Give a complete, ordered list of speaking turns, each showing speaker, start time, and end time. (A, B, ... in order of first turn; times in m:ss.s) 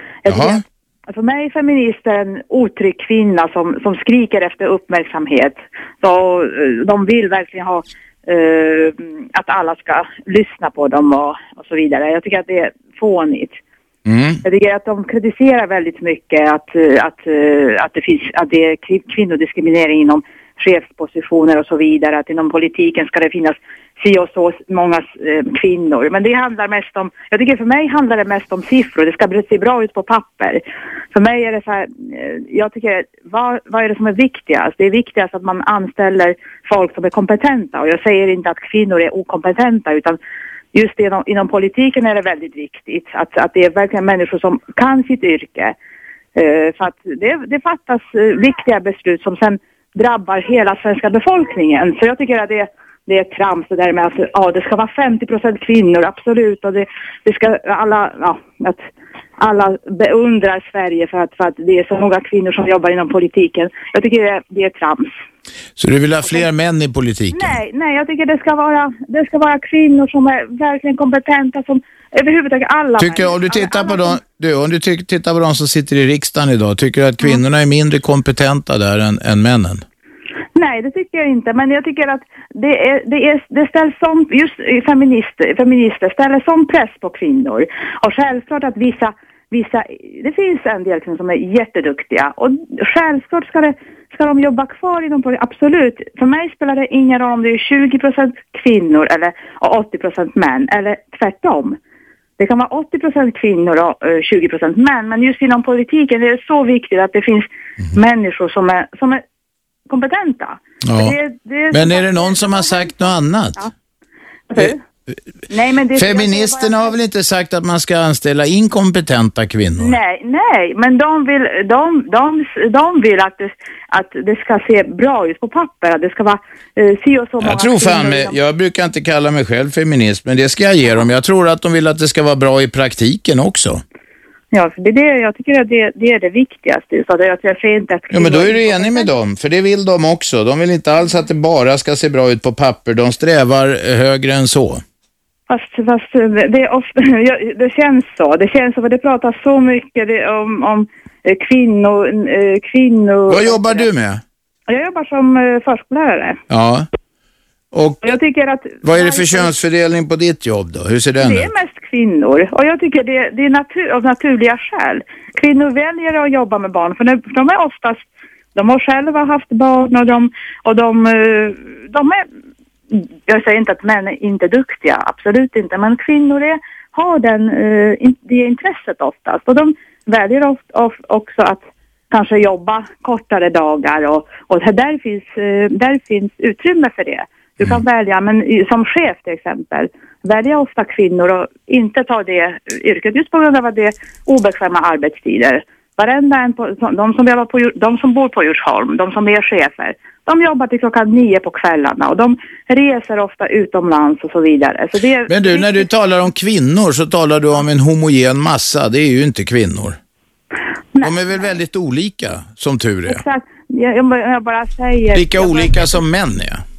0:00.2-0:13.6 A
0:00.3-0:00.6 B
0:14.0-0:14.4 B
0:14.4-0:30.6 A
0:31.1-0:40.2 A
0:40.7-0:45.7 A
0:46.4-0:58.8 A
0:59.4-1:05.1 A
1:05.8-1:07.6 B
1:07.3-1:14.2 A
1:13.0-1:19.8 B
1:20.6-1:41.8 A
1:42.4-1:49.2 A
1:49.9-1:53.7 A
1:50.8-1:51.1 B
1:51.7-1:53.6 B
1:54.5-1:54.8 A
1:55.5-1:56.9 A
1:55.9-2:00.0 B
1:59.8-2:08.3 A
2:07.4-2:13.8 B
2:14.5-2:19.1 A
2:18.1-2:24.8 B
2:25.5-2:33.8 A
2:33.3-2:34.2 B
2:34.7-2:36.4 A
2:36.5-2:36.9 B
2:37.7-2:38.0 B
2:38.0-2:39.5 A
2:38.8-2:41.5 B
2:41.2-2:52.2 A
2:52.9-3:25.8 A
3:25.3-3:30.0 B
3:30.9-3:31.4 A
3:31.0-3:33.2 B
3:33.1-3:36.0 A
3:35.1-3:36.6 B